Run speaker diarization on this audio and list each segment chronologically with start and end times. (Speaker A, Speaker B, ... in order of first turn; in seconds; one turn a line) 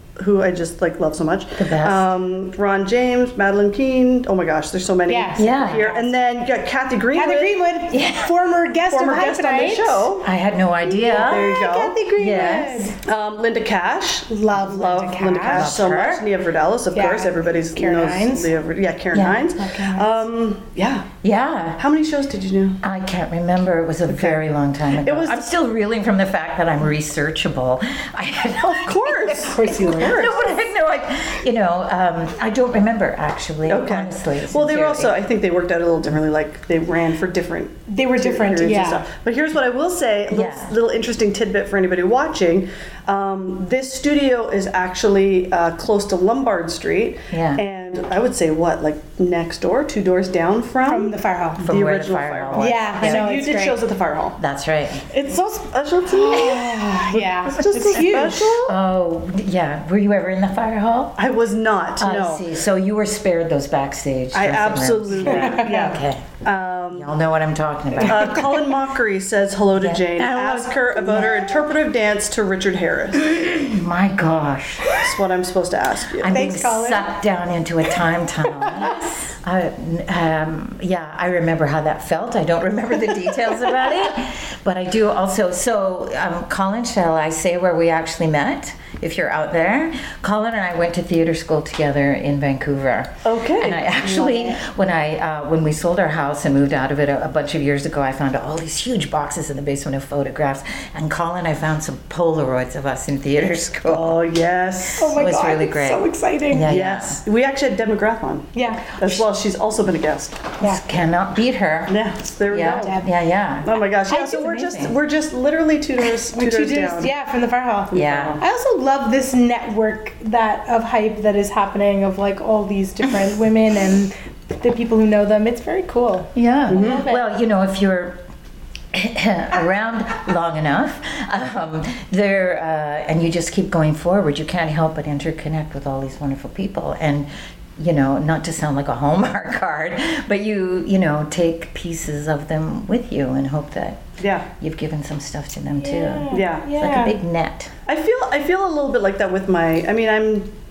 Speaker A: 0.2-7.6
Speaker B: 1.6-2.1
Speaker C: 5.1-6.1
Speaker B: 5.3-5.9
Speaker C: 7.1-10.1
Speaker B: 7.9-8.3
Speaker A: 8.9-10.3
Speaker B: 10.2-11.6
Speaker C: 10.8-13.0
Speaker A: 11.1-12.0
Speaker B: 12.2-12.9
Speaker A: 13.0-21.1
Speaker C: 14.3-15.7
Speaker B: 15.5-16.2
Speaker C: 16.9-18.5
Speaker B: 19.1-19.4
Speaker C: 19.6-20.2
Speaker B: 21.2-21.8
Speaker A: 21.8-22.8
Speaker B: 22.8-35.2
Speaker A: 24.1-24.4
Speaker A: 24.9-25.5
Speaker A: 28.6-30.5
Speaker C: 29.4-30.3
Speaker A: 33.7-54.4
Speaker C: 37.9-39.0
Speaker B: 40.3-40.7
Speaker B: 47.3-47.6
Speaker C: 50.8-51.6
Speaker B: 51.6-53.2
Speaker C: 52.5-53.8
Speaker B: 54.4-55.0
Speaker A: 55.1-58.8
Speaker C: 56.1-58.6
Speaker B: 57.9-61.2
Speaker A: 61.2-62.5
Speaker B: 62.0-66.3
Speaker A: 64.3-67.1
Speaker C: 65.2-66.0
Speaker B: 66.9-68.5
Speaker A: 68.0-73.3
Speaker B: 69.8-71.4
Speaker B: 73.1-75.0
Speaker A: 74.9-76.4
Speaker B: 76.1-104.2
Speaker C: 76.2-77.1
Speaker A: 93.2-93.8
Speaker C: 93.9-94.6
Speaker A: 103.8-105.2
Speaker C: 105.0-106.7
Speaker B: 105.0-107.2
Speaker A: 106.7-110.5
Speaker C: 108.5-108.9
Speaker B: 110.6-112.0
Speaker A: 111.9-113.0
Speaker B: 112.5-113.7
Speaker C: 112.5-113.1
Speaker A: 113.6-117.1
Speaker C: 114.1-114.5
Speaker B: 114.2-115.0
Speaker C: 116.3-127.2
Speaker A: 117.9-118.4
Speaker B: 117.9-118.4
Speaker B: 126.3-128.2
Speaker A: 126.7-127.0
Speaker B: 128.9-144.0
Speaker A: 144.2-144.5
Speaker B: 144.6-147.7
Speaker C: 145.8-147.2
Speaker A: 146.3-146.7
Speaker A: 147.9-150.5